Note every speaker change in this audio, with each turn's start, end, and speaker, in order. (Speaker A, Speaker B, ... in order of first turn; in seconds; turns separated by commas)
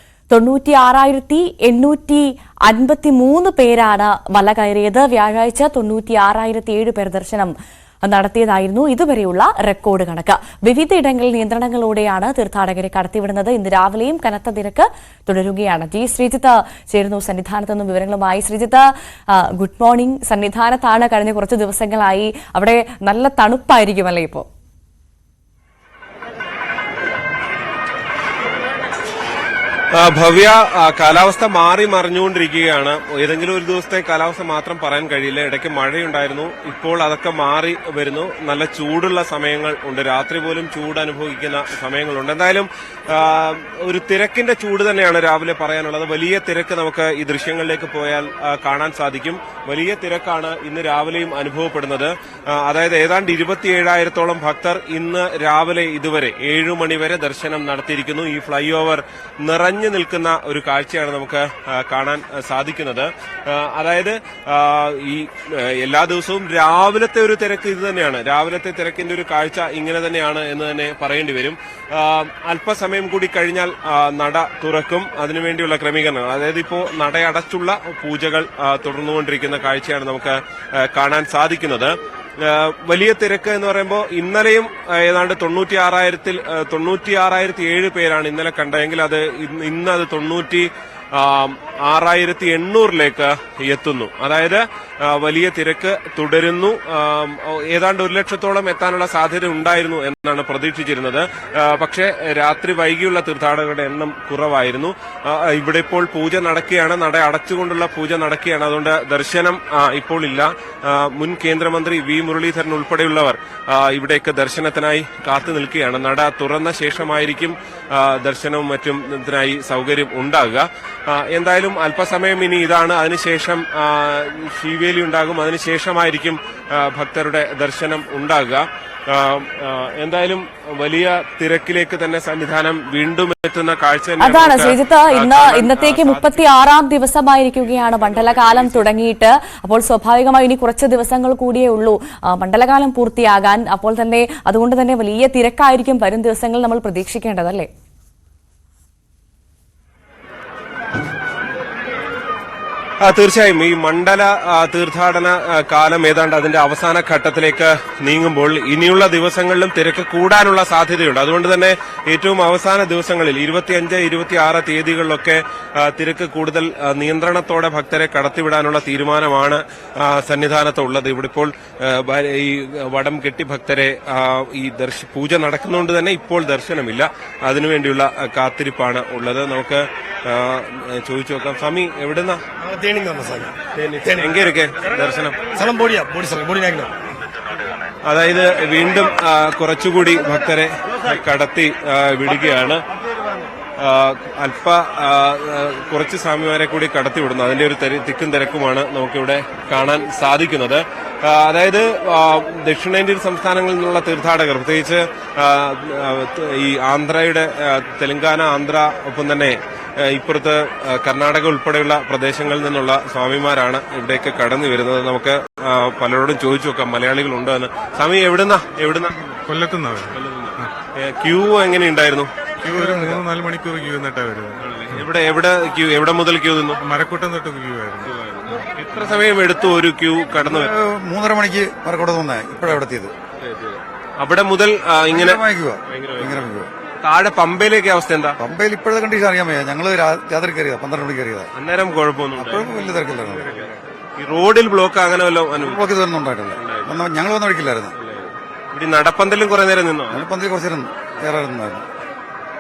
Speaker A: 0.3-24.5, Speaker B: 29.9-136.4, Speaker A: 134.2-147.7, Speaker B: 138.0-138.8, Speaker B: 153.0-182.4, Speaker C: 182.6-184.3, Speaker B: 183.7-185.4, Speaker C: 185.5-187.0, Speaker B: 188.1-192.8, Speaker B: 193.8-219.3, Speaker D: 219.4-220.7, Speaker B: 220.1-222.3, Speaker D: 222.6-224.6, Speaker E: 222.7-223.2, Speaker B: 224.6-226.8, Speaker D: 226.8-228.1, Speaker B: 228.0-230.7, Speaker E: 230.4-233.1, Speaker B: 233.4-236.5, Speaker E: 235.1-236.7, Speaker B: 237.0-238.4, Speaker E: 238.4-241.5, Speaker B: 241.6-245.9, Speaker E: 242.4-243.6, Speaker E: 245.6-247.9, Speaker B: 246.5-247.0, Speaker B: 247.9-250.2, Speaker E: 250.1-251.9